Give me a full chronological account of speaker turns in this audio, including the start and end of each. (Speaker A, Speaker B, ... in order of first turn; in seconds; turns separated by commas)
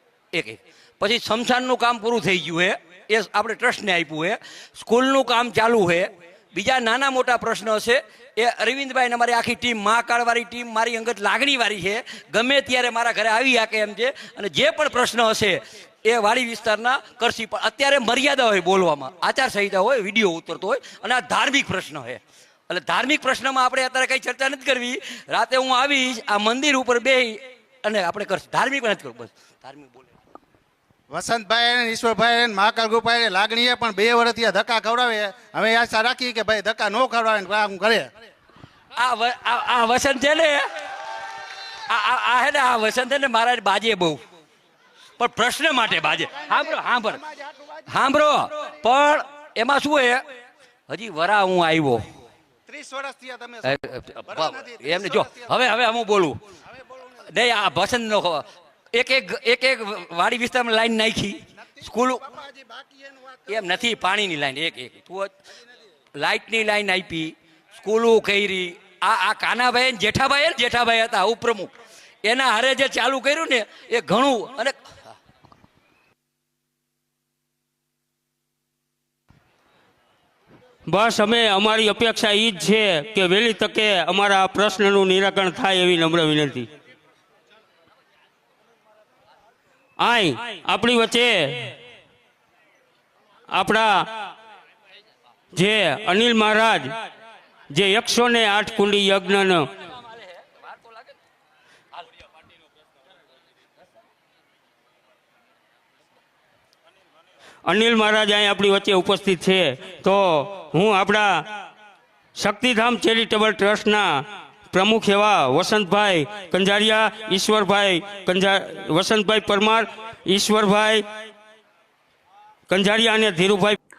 Speaker A: 0.3-30.1, Speaker B: 31.1-38.1, Speaker A: 38.9-40.6, Speaker A: 41.9-44.2, Speaker A: 45.2-47.3, Speaker A: 47.9-50.2, Speaker A: 50.9-52.0, Speaker B: 52.7-53.7, Speaker A: 53.6-56.4, Speaker B: 54.4-55.4, Speaker A: 57.3-62.4, Speaker A: 63.5-65.3, Speaker A: 66.2-71.7, Speaker A: 72.2-74.8, Speaker C: 80.9-86.7, Speaker C: 90.0-91.8, Speaker C: 93.5-94.1, Speaker C: 95.5-96.9, Speaker C: 97.7-99.7, Speaker A: 99.9-101.1, Speaker C: 107.7-111.5, Speaker C: 112.3-121.0, Speaker C: 122.7-123.8